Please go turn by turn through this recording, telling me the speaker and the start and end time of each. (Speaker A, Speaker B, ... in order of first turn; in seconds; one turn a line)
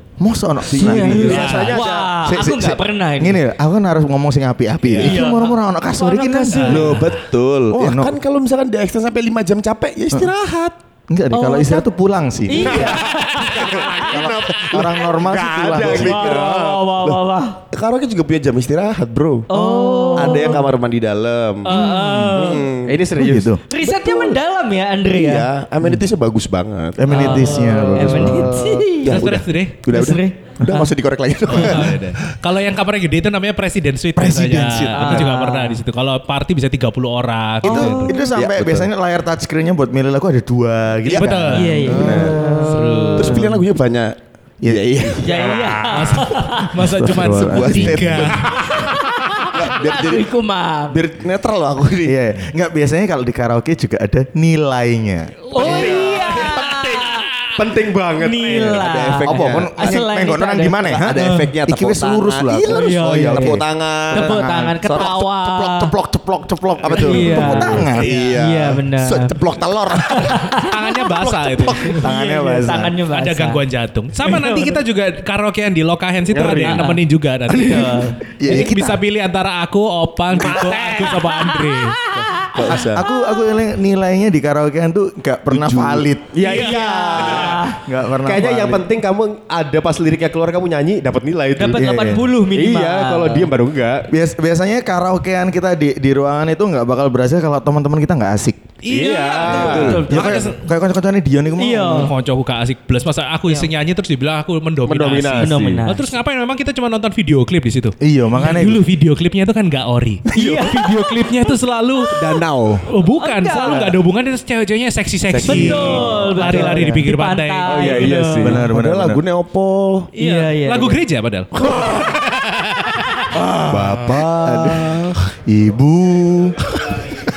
Speaker A: 0.2-1.6
Speaker B: 0.7-3.4
Speaker C: 0.9-2.1
Speaker D: 1.1-1.8
Speaker A: 2.2-7.0
Speaker D: 4.8-5.2
Speaker B: 5.0-7.1
Speaker C: 6.7-10.8
Speaker D: 6.7-7.0
Speaker A: 7.7-8.2
Speaker A: 11.1-13.0
Speaker B: 11.3-11.9
Speaker B: 12.5-14.1
Speaker C: 12.7-17.2
Speaker E: 12.7-16.9
Speaker A: 14.1-16.4
Speaker B: 15.8-17.6
Speaker C: 17.7-19.5
Speaker B: 19.5-20.6
Speaker C: 20.1-21.8
Speaker B: 21.6-22.7
Speaker A: 21.7-22.6
Speaker C: 22.3-23.0
Speaker E: 22.4-23.6
Speaker A: 23.1-23.6
Speaker B: 23.7-25.5
Speaker C: 23.8-24.3
Speaker C: 25.1-27.3
Speaker A: 27.0-28.9
Speaker B: 27.1-29.3
Speaker C: 28.4-32.2
Speaker D: 29.1-29.8
Speaker B: 29.9-30.5
Speaker A: 30.6-30.9
Speaker D: 31.5-38.2
Speaker A: 34.1-35.3
Speaker B: 34.9-35.8
Speaker A: 37.6-43.6
Speaker B: 37.6-38.2
Speaker C: 38.4-38.9
Speaker D: 41.1-43.5
Speaker B: 41.5-43.1
Speaker C: 41.9-42.3
Speaker C: 43.2-45.7
Speaker A: 44.6-45.6
Speaker B: 45.2-46.8
Speaker E: 45.4-45.9
Speaker D: 45.9-48.6
Speaker A: 46.8-48.4
Speaker C: 47.2-48.9
Speaker B: 48.5-50.9
Speaker C: 49.4-50.3
Speaker C: 50.9-52.2
Speaker A: 52.1-55.5
Speaker D: 55.5-56.8
Speaker B: 55.5-57.2
Speaker C: 55.6-56.5
Speaker C: 57.6-59.9
Speaker B: 58.2-61.5
Speaker A: 59.3-68.2
Speaker C: 61.0-65.2
Speaker B: 62.7-65.9
Speaker C: 66.8-70.4
Speaker B: 67.0-69.3
Speaker B: 70.0-70.7
Speaker D: 70.5-72.1
Speaker C: 71.1-72.1
Speaker B: 71.9-73.6
Speaker A: 72.0-73.0
Speaker D: 73.1-82.0
Speaker B: 74.2-74.8
Speaker E: 76.3-76.8
Speaker B: 76.6-78.2
Speaker A: 78.4-79.0
Speaker E: 80.5-81.0
Speaker C: 82.2-83.0
Speaker A: 82.7-86.3
Speaker C: 85.5-86.1
Speaker E: 86.3-87.6
Speaker D: 86.4-87.5
Speaker B: 86.4-87.8
Speaker C: 86.7-87.5
Speaker A: 87.7-88.9
Speaker E: 88.2-91.8
Speaker B: 91.6-93.5
Speaker A: 91.6-92.3
Speaker E: 92.5-94.1
Speaker A: 94.1-98.6
Speaker D: 98.8-100.6
Speaker E: 98.9-99.9
Speaker C: 98.9-100.0
Speaker A: 99.3-102.1
Speaker B: 99.6-100.4
Speaker B: 101.6-102.1
Speaker D: 101.9-112.3
Speaker C: 104.9-105.8
Speaker B: 105.4-106.1
Speaker A: 108.0-108.8
Speaker B: 110.3-111.1
Speaker C: 110.4-110.7
Speaker C: 112.1-112.9
Speaker D: 112.9-118.0
Speaker B: 113.2-113.9
Speaker C: 113.7-114.0
Speaker C: 115.3-116.3
Speaker B: 115.5-118.6
Speaker A: 116.4-117.0
Speaker C: 117.7-120.1
Speaker E: 117.8-118.3
Speaker A: 118.2-119.2
Speaker D: 120.1-123.2
Speaker B: 120.2-121.0
Speaker C: 121.6-122.1
Speaker C: 123.3-125.2
Speaker A: 123.4-127.2